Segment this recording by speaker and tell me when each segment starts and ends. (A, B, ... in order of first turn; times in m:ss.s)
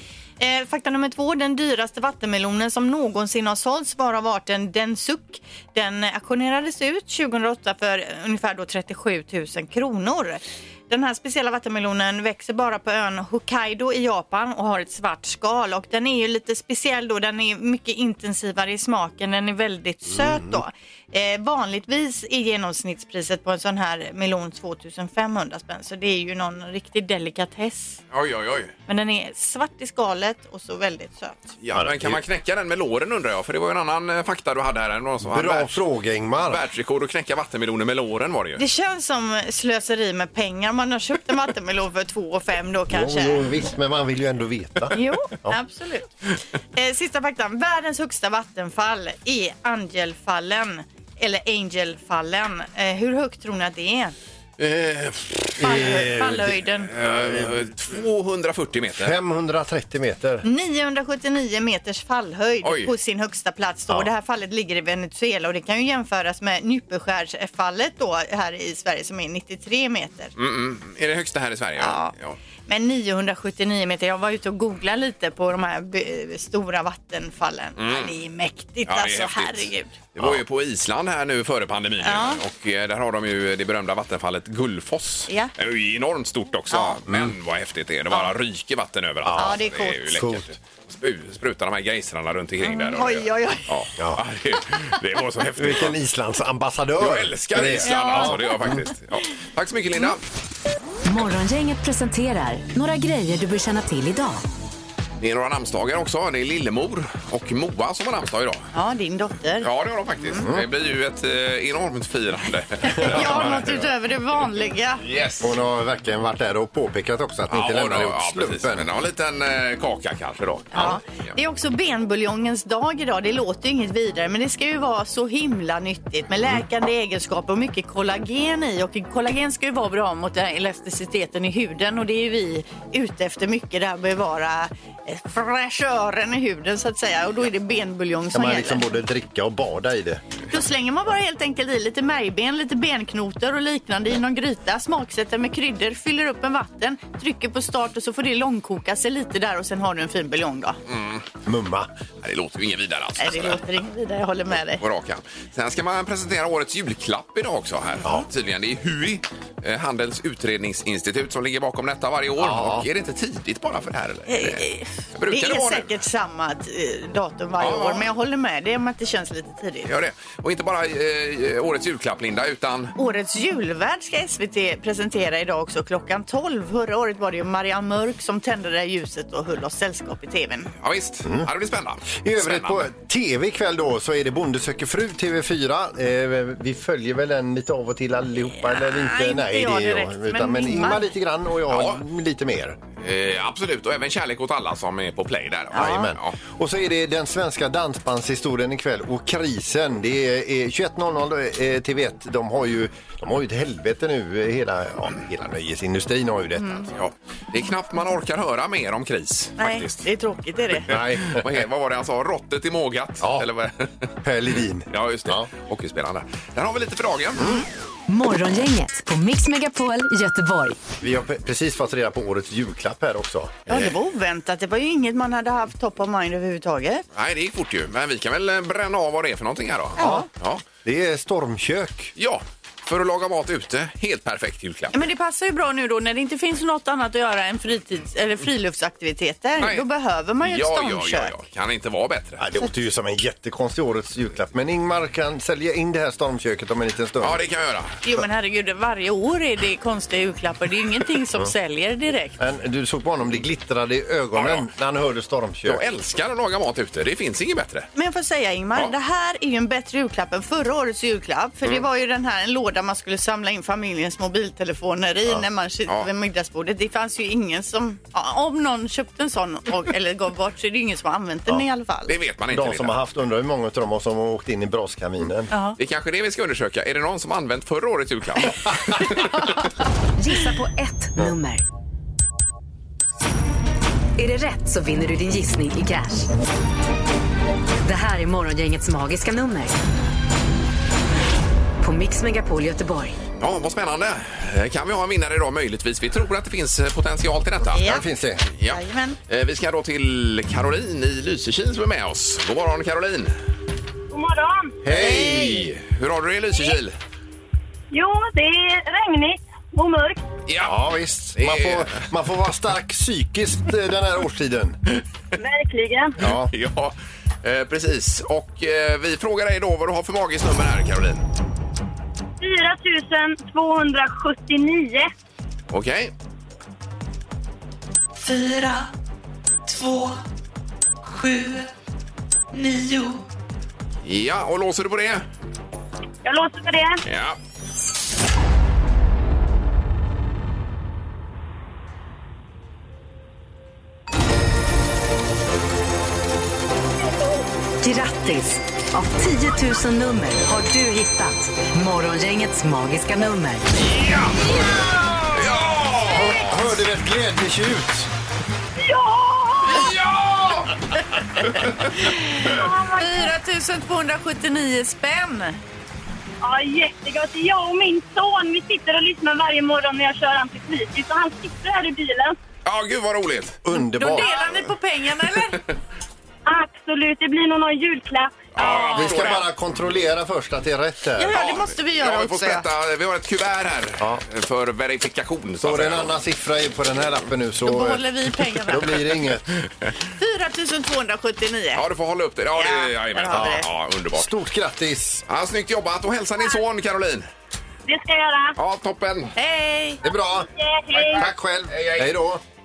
0:00.4-0:28.0 A
0:20.1-0:20.6 B
0:28.1-0:28.7 C
0:28.9-0:31.5 A
0:31.6-0:35.8 C
0:31.8-0:32.2 B
0:35.2-0:36.6 B
0:36.5-0:38.6 C
0:38.6-0:43.5 A
0:42.9-0:45.6 B
0:44.9-0:46.1 A
0:46.7-0:54.1 A
0:54.6-0:55.9 C
0:55.6-0:56.6 B
0:55.6-0:56.9 A
0:56.9-0:59.2 C
0:59.0-1:00.5 B
1:00.4-1:10.3 A
1:02.6-1:02.9 C
1:10.4-1:12.4 C
1:11.8-1:12.1 A
1:12.7-1:19.9 A
1:17.8-1:18.1 C
1:18.9-1:36.0 C
1:22.0-1:22.4 A
1:26.7-1:27.0 A
1:29.2-1:29.6 B
1:29.4-1:30.1 A
1:30.1-1:30.5 B
1:32.6-1:33.7 A
1:35.6-1:38.8 B
1:37.0-1:40.2 C
1:37.8-1:38.4 A
1:41.1-1:44.4 D
1:45.2-1:48.6 C
1:48.7-1:49.7 A
1:49.6-1:53.9 C
1:50.2-1:50.4 A
1:50.4-1:50.7 B
1:52.8-1:55.0 A
1:55.0-1:55.5 C
1:55.4-1:58.8 B
1:57.5-2:01.3 C
2:00.7-2:18.9 A
2:18.3-2:20.2 B
2:20.5-2:30.8 A
2:30.9-2:31.3 C
2:31.4-2:31.9 B
2:32.2-2:33.6 C
2:33.2-2:34.8 A
2:34.8-2:46.0 C
2:42.4-2:42.9 B
2:44.3-2:49.9 A
2:47.6-2:48.1 C
2:49.9-2:52.9 C
2:53.0-3:00.7 A
3:00.8-3:02.9 C
3:01.2-3:01.5 B
3:02.2-3:12.8 B
3:08.6-3:11.1 A
3:11.7-3:12.0 C
3:13.0-3:16.4 C
3:15.7-3:26.9 B
3:15.7-3:16.1 A
3:26.6-3:26.8 A
3:27.0-3:30.0 C
3:29.6-3:31.0 A
3:30.9-3:31.5 B
3:31.2-3:34.1 C
3:33.2-3:33.5 B
3:34.2-3:35.5 B
3:34.9-3:37.6 C
3:37.4-3:37.7 B
3:38.1-3:40.8 D
3:41.0-3:43.8 B
3:43.7-3:47.0 A
3:47.1-3:50.6 C
3:50.0-3:50.3 B
3:50.0-3:50.3 A
3:50.8-3:52.1 B
3:52.2-3:54.9 C
3:54.9-4:01.3 A
3:59.6-3:59.8 C
4:00.4-4:02.4 C
4:02.4-4:07.4 B
4:07.2-4:08.0 C
4:08.0-4:12.4 A
4:12.4-4:15.8 B
4:14.3-4:14.6 C
4:15.6-4:17.9 C
4:18.0-4:32.1 A
4:32.1-4:33.0 C
4:32.5-4:35.5 B
4:35.5-4:35.8 A
4:35.8-4:39.5 C
4:40.2-4:41.6 D
4:44.2-4:46.3 D
4:47.8-4:49.8 D
4:51.8-4:53.2 D
4:53.4-4:57.8 C
4:57.7-4:58.0 A
4:57.8-4:58.5 B
4:58.5-5:03.3 C
4:58.7-4:59.2 A
5:04.1-5:04.8 E
5:04.8-5:05.7 B
5:04.9-5:05.5 A
5:05.0-5:07.0 C
5:07.9-5:10.2 E
5:10.5-5:10.8 C
5:10.6-5:14.8 B
5:11.4-5:12.1 C
5:15.4-5:16.2 E
5:16.2-5:16.5 B
5:16.2-5:21.2 C
5:22.4-5:25.1 E
5:25.7-5:26.1 C
5:28.2-5:28.9 F
5:29.7-5:30.2 F
5:31.0-5:31.7 F
5:32.5-5:33.2 F
5:34.0-5:35.2 C
5:36.2-5:37.0 E
5:37.0-5:37.4 C
5:47.8-5:53.7 D
5:53.8-5:56.6 C
5:56.1-5:58.1 B
5:58.8-5:59.9 E
5:59.7-6:00.8 C
6:02.0-6:02.4 A
6:02.4-6:03.3 E
6:03.0-6:05.6 A
6:06.4-6:12.4 E
6:12.6-6:13.6 C
6:13.6-6:14.6 B
6:13.7-6:15.6 A
6:16.5-6:18.5 E
6:18.6-6:19.5 C
6:18.6-6:19.3 A
6:18.9-6:21.4 B
6:21.2-6:22.6 A
6:21.3-6:26.2 C
6:25.6-6:29.5 B
6:27.6-6:29.0 A
6:30.2-6:31.8 A
6:31.8-6:34.3 C
6:32.6-6:33.6 A
6:33.3-6:33.6 B
6:34.2-6:35.2 B
6:35.3-6:37.3 C
6:37.9-6:38.6 E
6:38.6-6:39.3 C
6:39.4-6:40.0 A
6:40.0-6:40.5 B
6:40.3-6:41.2 E
6:40.9-6:42.2 C
6:41.1-6:42.4 B